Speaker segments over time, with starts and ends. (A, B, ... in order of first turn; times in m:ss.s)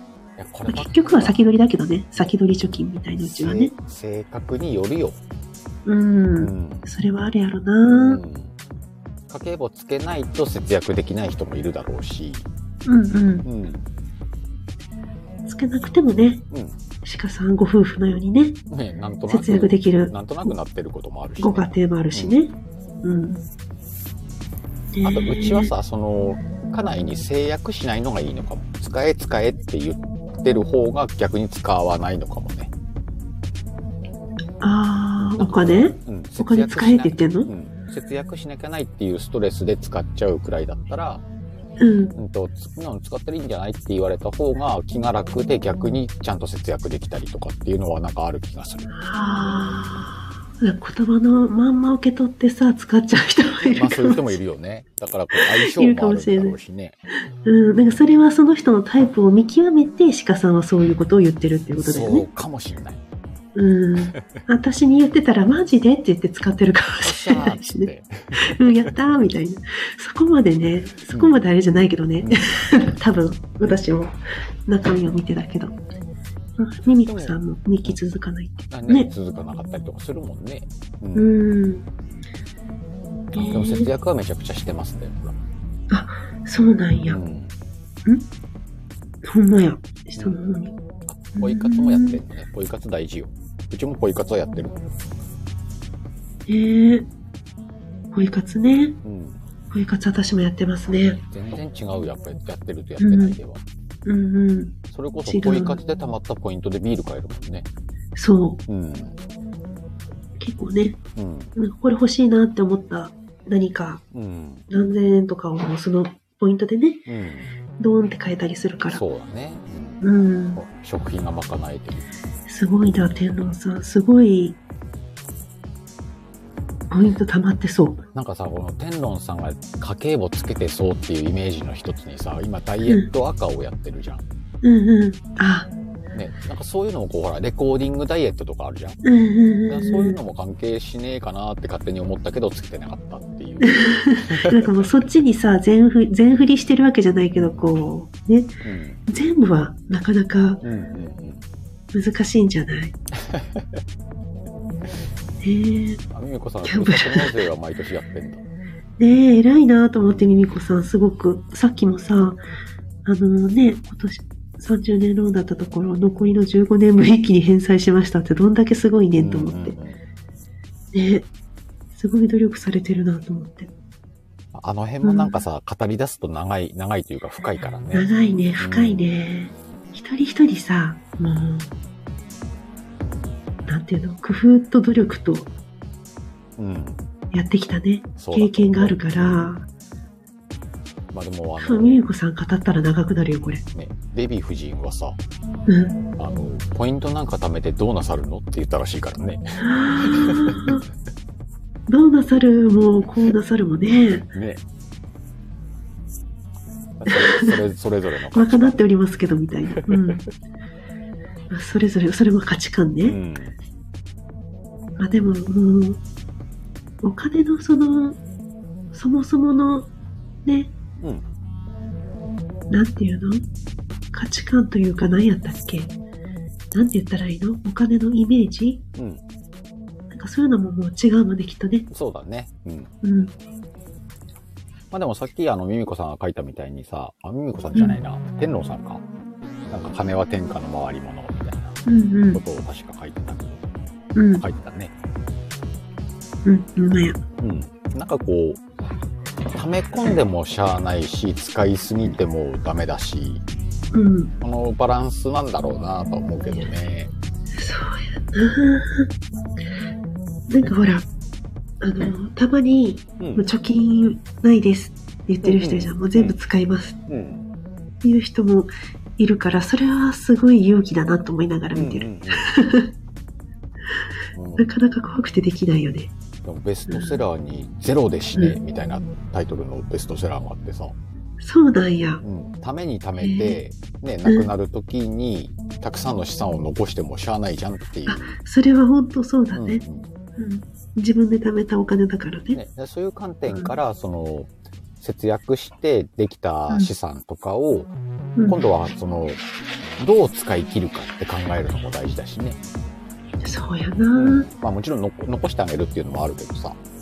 0:00.4-0:01.4 A
0:00.7-0:03.7 B
0:03.2-0:05.2 A
0:05.9-0:08.2 B
0:06.4-0:06.9 A
0:07.8-0:08.6 A
0:09.3-0:12.4 A
0:12.8-0:13.4 B
0:13.4-0:13.9 A
0:15.4-0:16.4 B
0:16.5-0:16.8 A
0:17.0-0:18.6 B
0:18.7-0:22.4 A
0:19.3-0:20.5 B
0:21.4-0:23.4 B
0:24.9-0:25.7 B
0:25.0-0:32.7 A
0:34.6-0:37.5 B
0:35.2-0:41.2 A
0:41.8-0:42.2 B
0:42.2-0:48.9 A
0:48.9-0:54.4 B
0:53.7-0:57.0 A
0:55.3-0:56.6 B
0:57.4-1:02.2 B
1:01.8-1:03.0 A
1:03.6-1:15.8 B
1:07.0-1:08.9 A
1:11.1-1:11.4 A
1:12.2-1:12.6 A
1:16.6-1:19.1 B
1:17.0-1:18.0 A
1:18.7-1:21.3 A
1:21.2-1:21.9 B
1:23.3-1:23.9 B
1:23.3-1:25.4 A
1:25.9-1:27.2 B
1:27.1-1:27.5 A
1:29.2-1:30.8 B
1:31.1-1:34.8 A
1:31.4-1:32.2 B
1:36.5-1:37.1 B
1:38.1-1:39.0 B
1:39.0-1:39.4 A
1:39.7-1:41.2 B
1:41.0-1:43.6 A
1:43.0-1:43.4 B
1:44.0-1:45.8 B
1:44.9-1:47.7 A
1:48.2-1:48.6 B
1:48.7-1:49.2 A
1:50.4-1:51.0 B
1:51.2-1:51.5 A
1:51.6-1:54.0 B
1:54.1-1:54.7 A
1:54.7-1:57.0 B
1:57.1-1:57.5 A
1:57.8-1:59.0 B
1:58.9-2:00.0 A
2:00.0-2:00.6 B
2:00.6-2:02.1 A
2:02.5-2:04.6 B
2:06.9-2:08.0 B
2:08.2-2:14.2 A
2:14.6-2:15.7 B
2:16.1-2:19.0 A
2:19.0-2:20.2 B
2:19.7-2:24.8 A
2:23.6-2:28.6 B
2:27.4-2:27.7 A
2:28.6-2:29.0 A
2:29.1-2:30.6 B
2:30.6-2:31.4 A
2:31.9-2:33.0 B
2:33.2-2:33.8 A
2:35.4-2:36.0 B
2:36.1-2:38.4 A
2:36.6-2:37.4 B
2:39.0-2:42.4 B
2:43.0-2:49.8 B
2:49.2-2:50.0 A
2:50.9-2:51.3 B
2:51.9-2:53.7 B
2:54.5-2:59.1 A
2:55.0-2:55.4 B
2:57.9-3:01.7 B
3:03.7-3:05.5 B
3:06.6-3:07.0 A
3:07.3-3:09.6 B
3:08.2-3:09.5 A
3:11.1-3:12.0 A
3:11.6-3:13.6 B
3:13.7-3:15.2 A
3:15.7-3:16.0 B
3:16.2-3:19.4 A
3:19.6-3:20.8 B
3:20.0-3:20.8 A
3:21.9-3:24.3 B
3:24.1-3:24.6 A
3:27.0-3:28.8 A
3:27.1-3:27.6 B
3:28.3-3:30.2 B
3:31.5-3:33.2 B
3:33.0-3:33.6 A
3:35.0-3:36.0 B
3:37.0-3:38.2 B
3:38.9-3:39.9 B
3:40.4-3:40.7 B
3:42.7-3:43.4 B
3:44.1-3:45.9 B
3:46.7-3:48.8 B
3:49.0-3:49.2 A
3:50.1-3:51.9 B
3:51.9-3:52.9 A
3:53.0-3:53.3 B
3:54.9-3:59.0 A
3:57.7-3:58.0 B
3:59.7-4:01.8 A
4:01.8-4:02.4 B
4:02.3-4:03.6 A
4:04.2-4:04.4 B
4:04.4-4:04.9 A
4:06.4-4:07.2 B
4:07.4-4:08.6 A
4:09.5-4:13.4 A
4:13.9-4:14.3 B
4:14.4-4:17.1 A
4:17.5-4:19.1 B
4:20.5-4:21.1 B
4:21.8-4:27.0 B
4:23.2-4:23.4 A
4:25.4-4:26.3 A
4:27.1-4:27.4 A
4:28.0-4:32.9 B
4:31.7-4:32.5 A
4:34.3-4:34.7 A
4:34.6-4:36.1 B
4:36.4-4:41.0 A
4:36.9-4:37.2 B
4:41.4-4:42.2 B
4:42.2-4:48.3 A
4:43.2-4:43.6 B
4:48.1-4:49.8 B
4:49.5-4:50.1 A
4:50.4-4:52.6 B
4:52.5-4:57.9 A
4:53.5-4:53.7 B
4:58.4-4:58.6 B
4:58.4-4:59.4 A
5:00.0-5:02.6 A
5:03.4-5:04.5 B
5:04.2-5:06.8 A